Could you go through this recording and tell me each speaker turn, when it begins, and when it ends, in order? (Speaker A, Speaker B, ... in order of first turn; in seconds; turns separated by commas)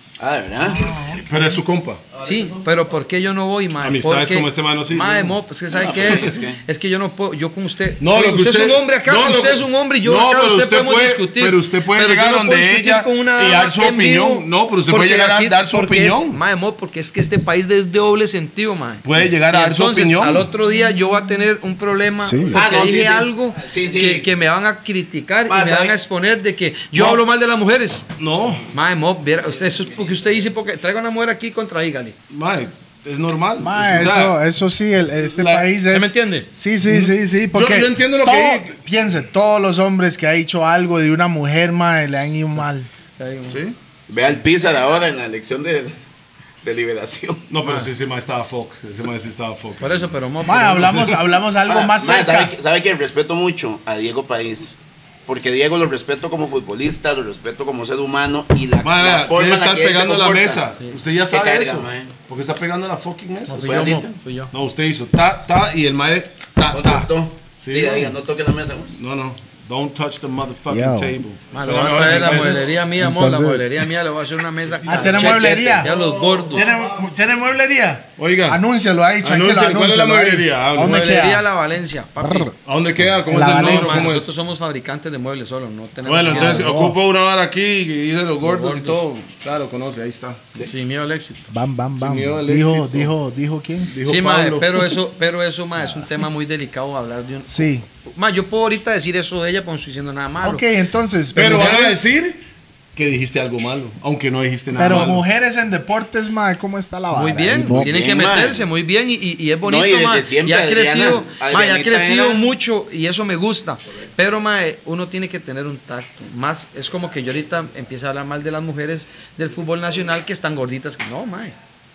Speaker A: 0.2-0.9, Speaker B: 0.6-1.4, Speaker C: 1.2-2.0, Speaker D: 2.2-28.0, Speaker C: 3.8-6.4, Speaker A: 5.7-6.6, Speaker C: 8.0-16.4, Speaker C: 19.0-20.5, Speaker B: 22.2-22.6, Speaker A: 22.5-24.3, Speaker A: 25.5-25.9, Speaker C: 26.9-27.2, Speaker C: 28.2-28.7, Speaker D: 28.7-32.1, Speaker C: 32.3-34.4, Speaker B: 33.6-42.9, Speaker C: 35.3-35.7, Speaker D: 35.9-36.5, Speaker C: 36.8-38.7, Speaker D: 43.2-43.6, Speaker C: 43.5-43.8, Speaker A: 44.1-46.0, Speaker A: 46.6-47.4, Speaker C: 47.5-50.1, Speaker B: 47.6-47.9, Speaker D: 49.8-51.1, Speaker B: 50.4-52.5, Speaker C: 50.8-51.2, Speaker A: 51.6-60.6, Speaker C: 58.8-68.2, Speaker A: 61.3-62.1, Speaker D: 63.5-64.5, Speaker A: 63.6-64.1, Speaker A: 66.7-69.0, Speaker C: 68.9-72.7, Speaker B: 70.7-71.2, Speaker D: 71.5-76.7, Speaker B: 72.1-73.9, Speaker B: 74.8-81.4, Speaker A: 75.2-75.9, Speaker C: 78.2-78.6, Speaker C: 79.2-81.0, Speaker D: 80.8-82.5, Speaker B: 82.2-82.5, Speaker C: 82.6-84.4, Speaker B: 83.2-84.1, Speaker D: 83.5-86.7, Speaker C: 86.0-90.6, Speaker B: 86.2-87.0, Speaker D: 88.4-89.0, Speaker D: 90.6-91.5, Speaker B: 91.5-93.9, Speaker C: 92.0-93.1, Speaker C: 93.9-94.9, Speaker D: 94.0-100.6, Speaker B: 97.5-97.8, Speaker B: 100.4-102.1, Speaker C: 101.3-102.4, Speaker D: 101.4-101.8, Speaker C: 102.9-105.2, Speaker B: 104.7-107.9, Speaker D: 107.1-121.5, Speaker A: 107.7-108.6, Speaker A: 109.6-112.5